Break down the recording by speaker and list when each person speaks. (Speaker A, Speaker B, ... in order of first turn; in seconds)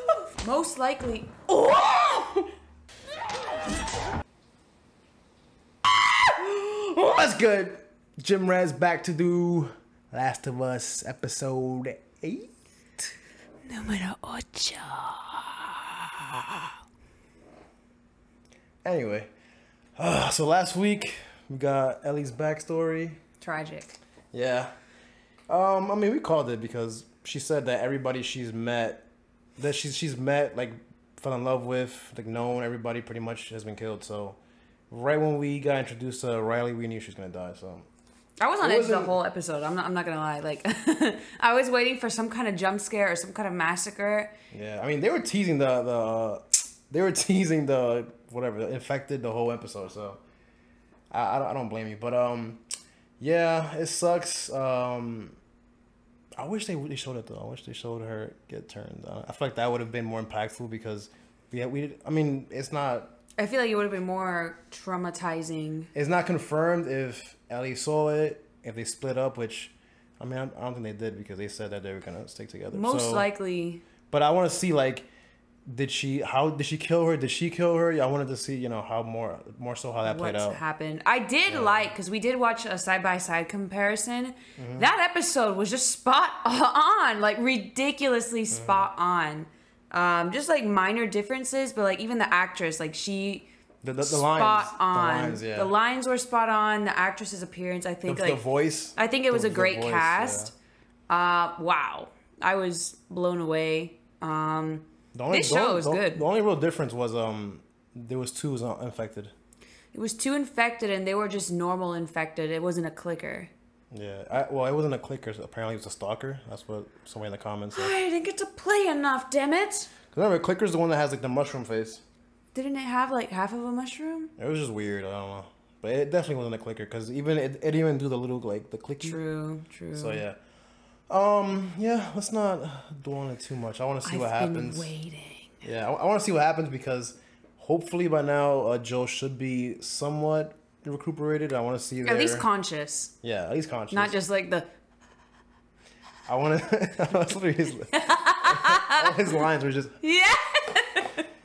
Speaker A: 0.2-2.5, 13.7-16.6, 23.4-24.0, 38.4-44.3, 63.4-65.9, 72.7-73.8, 80.0-93.5, 94.0-98.4, 99.0-100.5, 101.1-106.2, 109.9-113.5, 117.7-119.9, 122.5-124.3, 129.0-130.2, 134.0-135.6, 142.0-143.1, 143.9-144.7, 147.9-149.1, 150.0-151.2
Speaker B: 7.0-13.0, 18.8-19.3, 20.0-23.2, 24.3-24.8, 25.5-34.4, 34.9-37.9, 38.6-39.2, 44.5-50.2, 51.1-52.7, 53.2-55.4, 56.4-63.2, 65.9-73.3, 74.1-75.1, 75.7-80.6, 81.5-81.9, 84.6-84.9, 88.5-88.9, 93.8-95.8, 98.0-100.5, 105.1-109.3, 113.9-117.9, 120.1-122.0, 124.4-129.2, 129.9-130.4, 131.1-134.9, 135.6-142.5, 143.2-144.2, 146.2-149.9